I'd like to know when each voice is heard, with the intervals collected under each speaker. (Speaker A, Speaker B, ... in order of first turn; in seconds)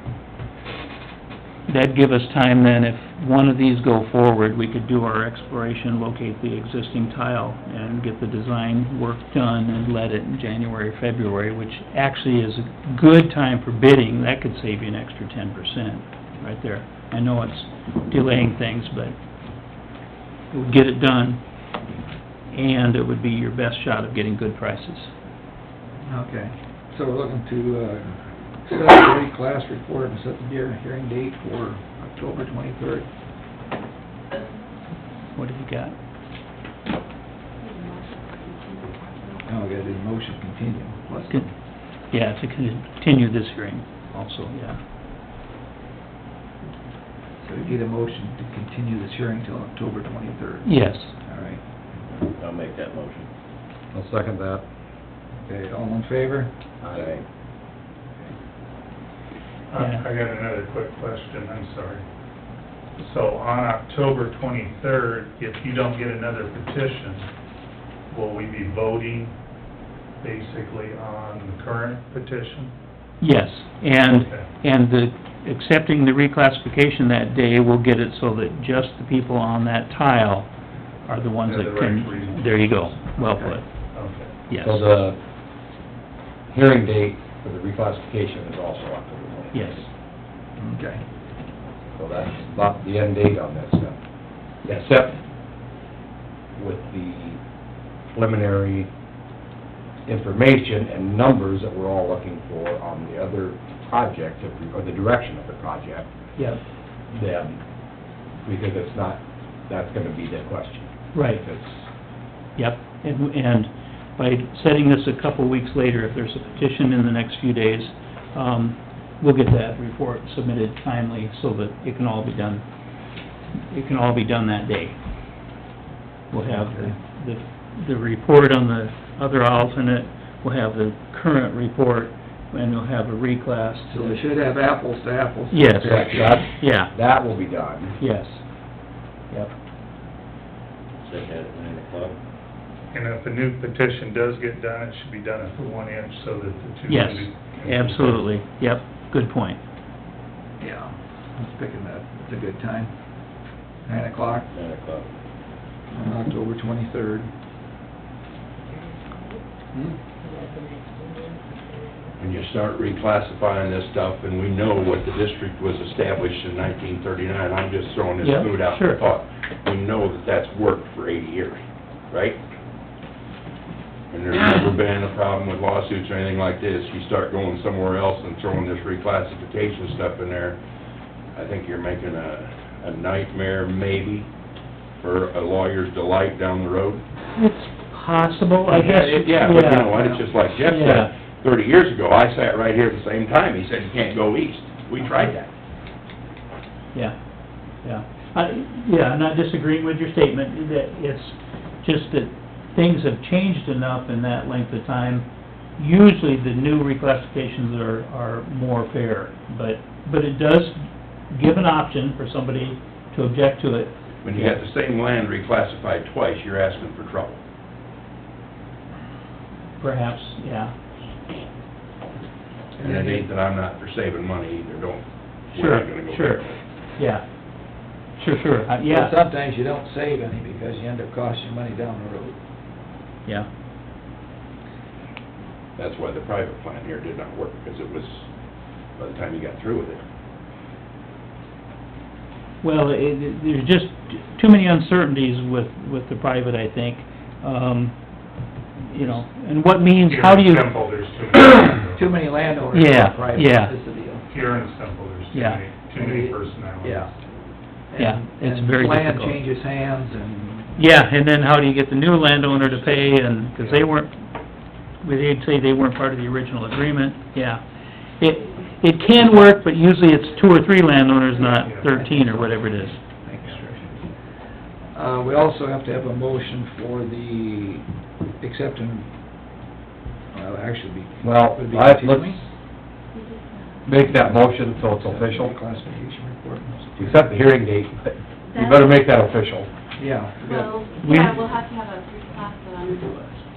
Speaker A: 1.7-19.1, 20.5-21.4, 22.5-25.1, 35.4-36.0, 42.1-44.8, 50.6-51.1, 59.8-60.0, 73.2-80.5, 81.1-83.7, 84.5-84.8, 89.5-89.8, 111.1-111.4, 112.6-122.7, 123.7-125.0, 126.3-134.2, 135.5-136.9, 138.0-138.4, 146.9-149.6, 168.2-169.0, 187.3-190.0, 190.6-191.1, 197.8-214.6, 219.8-220.7, 225.5-226.4, 227.0-227.2, 228.2-229.2, 242.6-248.0, 248.8-250.7, 252.7-253.8, 255.3-255.6, 258.0-259.4, 260.8-264.2, 265.0-267.6, 268.2-273.0, 291.0-291.4
Speaker B: 26.1-33.1, 39.5-41.5, 47.4-51.6, 55.4-56.5, 83.2-83.6, 90.6-91.0, 126.5-126.9, 133.9-136.3, 150.6-152.9, 153.8-154.5, 155.9-157.3, 188.7-190.2, 222.8-223.3, 228.8-232.4, 251.9-254.3, 255.9-257.1, 257.9-260.8, 272.0-274.0, 274.9-277.9, 278.4-279.1, 280.3-282.4, 284.0-287.3, 290.0-290.9
Speaker C: 37.6-39.6, 283.1-283.9, 288.5-289.0, 290.4-293.4
Speaker D: 52.1-53.3, 56.9-57.2, 141.0-142.2, 154.5-155.1
Speaker E: 53.9-54.6, 56.8-57.2, 84.6-85.2, 86.5-89.9, 91.9-94.0, 94.6-95.2, 96.6-97.4, 98.1-98.9, 100.1-106.1, 107.1-107.6, 108.4-111.9, 135.8-138.0, 281.2-282.4, 283.9-285.6, 287.0-289.7
Speaker F: 59.7-62.0, 63.0-67.3, 68.1-69.3, 70.2-72.7, 74.1-74.5, 81.4-83.0, 83.9-84.3, 142.9-148.3, 250.0-252.4, 254.3-257.1, 263.5-263.9, 271.4-272.1
Speaker G: 162.2-171.6, 172.1-172.4, 174.1-180.6, 181.3-184.3, 185.0-187.0, 188.8-195.5, 214.2-217.4, 222.8-226.6, 235.8-238.3, 239.0-240.0